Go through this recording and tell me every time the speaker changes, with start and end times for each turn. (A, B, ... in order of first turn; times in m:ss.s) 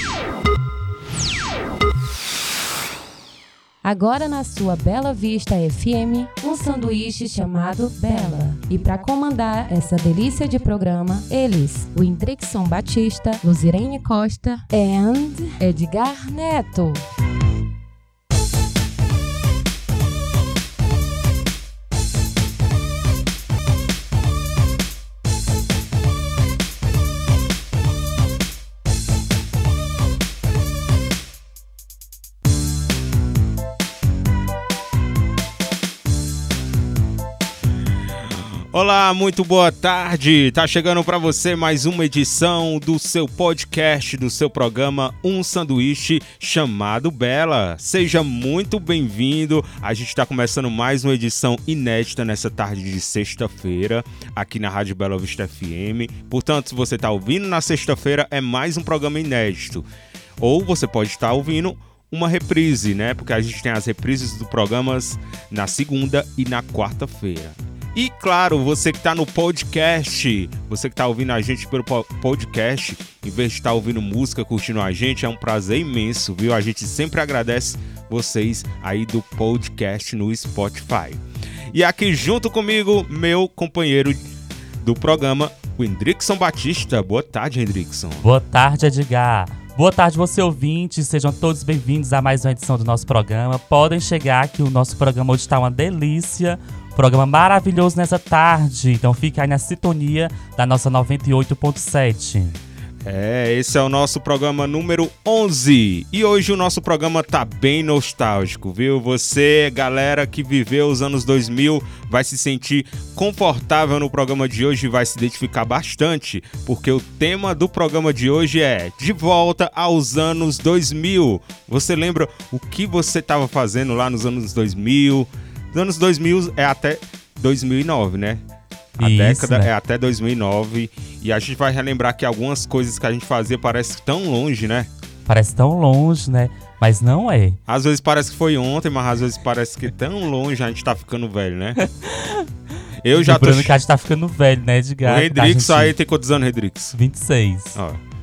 0:03.8-0:17.0 A
0:38.7-0:59.8 B
1:00.4-1:24.3 B
1:24.8-1:28.3 B
1:28.2-1:42.6 C
1:43.0-2:08.4 B
2:09.0-2:09.7 C
2:09.0-2:14.9 B
2:15.3-2:17.6 C
2:17.7-2:21.8 B
2:21.8-2:22.5 C
2:23.0-2:23.8 B
2:23.1-2:26.0 C
2:25.0-2:27.0 B
2:26.9-2:27.8 C
2:27.8-2:28.0 B